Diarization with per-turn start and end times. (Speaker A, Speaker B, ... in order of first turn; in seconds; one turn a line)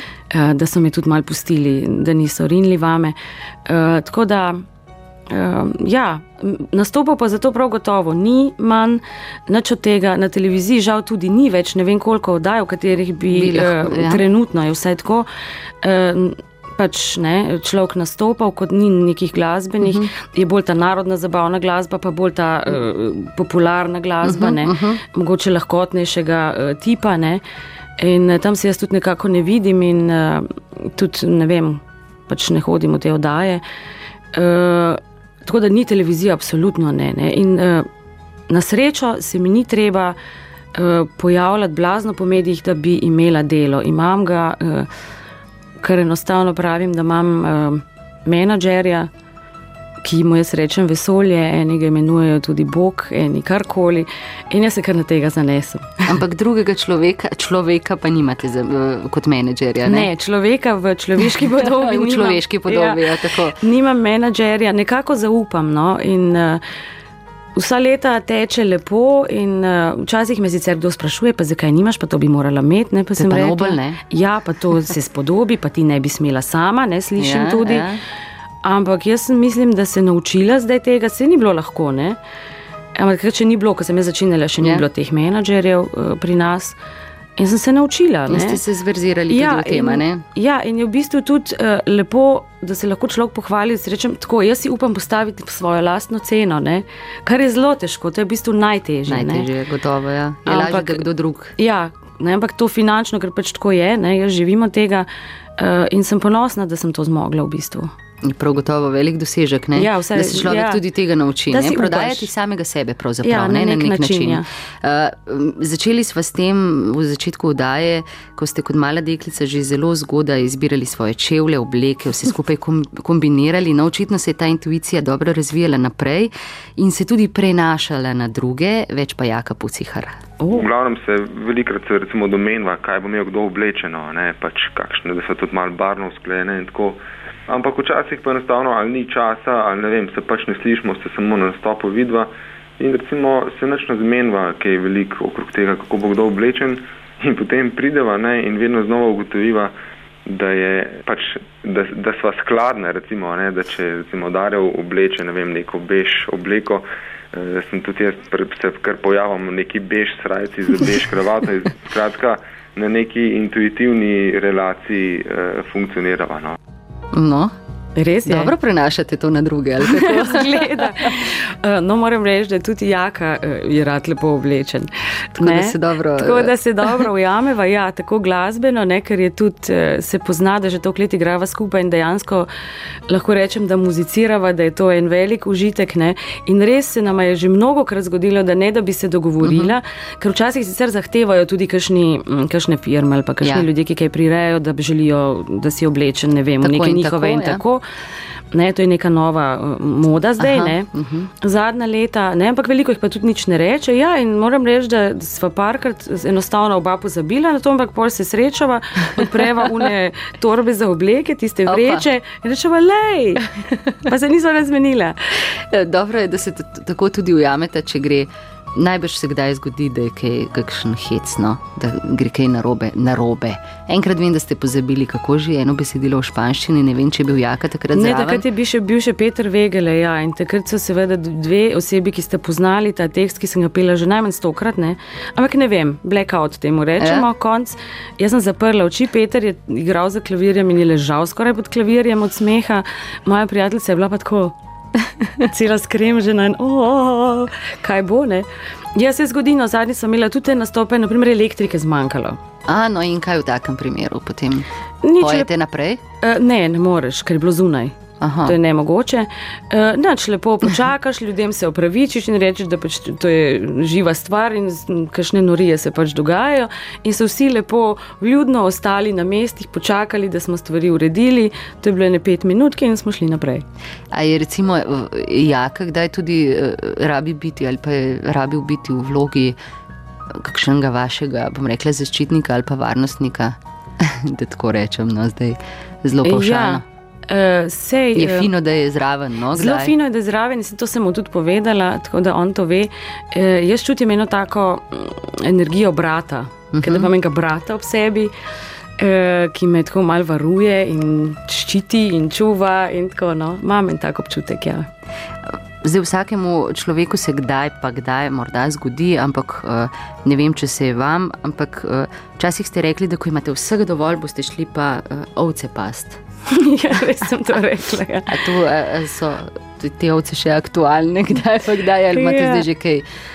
Speaker A: 0.3-4.6
Speaker A: 5.3-15.3
Speaker B: 13.3-14.2
Speaker A: 15.8-27.4
Speaker B: 19.8-20.1
Speaker B: 24.2-25.0
Speaker A: 28.0-33.6
Speaker A: 34.3-37.9
Speaker A: 38.5-40.1
Speaker A: 40.7-44.9
Speaker A: 45.8-49.1
Speaker A: 50.0-56.1
Speaker B: 56.1-60.1
Speaker A: 59.8-63.0
Speaker B: 61.6-63.6
Speaker A: 63.5-66.6
Speaker A: 67.5-77.9
Speaker B: 73.2-74.0
Speaker B: 77.2-78.0
Speaker A: 78.6-82.2
Speaker A: 83.0-86.8
Speaker A: 87.4-88.6
Speaker B: 88.3-90.2
Speaker A: 89.3-99.5
Speaker B: 99.1-101.5
Speaker A: 100.5-101.0
Speaker A: 101.6-107.9
Speaker B: 108.2-130.2
Speaker A: 109.7-110.8
Speaker A: 111.5-112.3
Speaker A: 113.2-114.4
Speaker A: 130.4-130.7
Speaker C: 130.5-149.7
Speaker C: 150.2-166.6
Speaker B: 167.1-167.5
Speaker A: 167.9-168.5
Speaker B: 168.2-171.1
Speaker A: 169.9-182.5
Speaker B: 175.4-177.1
Speaker A: 183.1-197.8
Speaker B: 189.4-189.7
Speaker B: 193.4-193.7
Speaker B: 196.6-197.6
Speaker A: 198.5-200.9
Speaker B: 200.4-201.3
Speaker A: 201.4-215.2
Speaker B: 211.7-212.0
Speaker B: 215.7-228.4
Speaker A: 227.9-244.5
Speaker B: 237.0-237.2
Speaker A: 245.4-252.4
Speaker B: 252.7-254.7
Speaker A: 255.0-255.5
Speaker B: 255.2-256.0
Speaker A: 256.2-273.6
Speaker B: 258.2-258.6
Speaker B: 274.1-279.6
Speaker B: 280.3-286.8
Speaker A: 286.2-288.5
Speaker B: 288.1-289.9
Speaker A: 289.5-298.3
Speaker B: 296.7-297.1
Speaker A: 299.0-304.9
Speaker B: 305.5-316.2
Speaker A: 316.5-318.4
Speaker B: 318.3-323.0
Speaker A: 322.1-322.6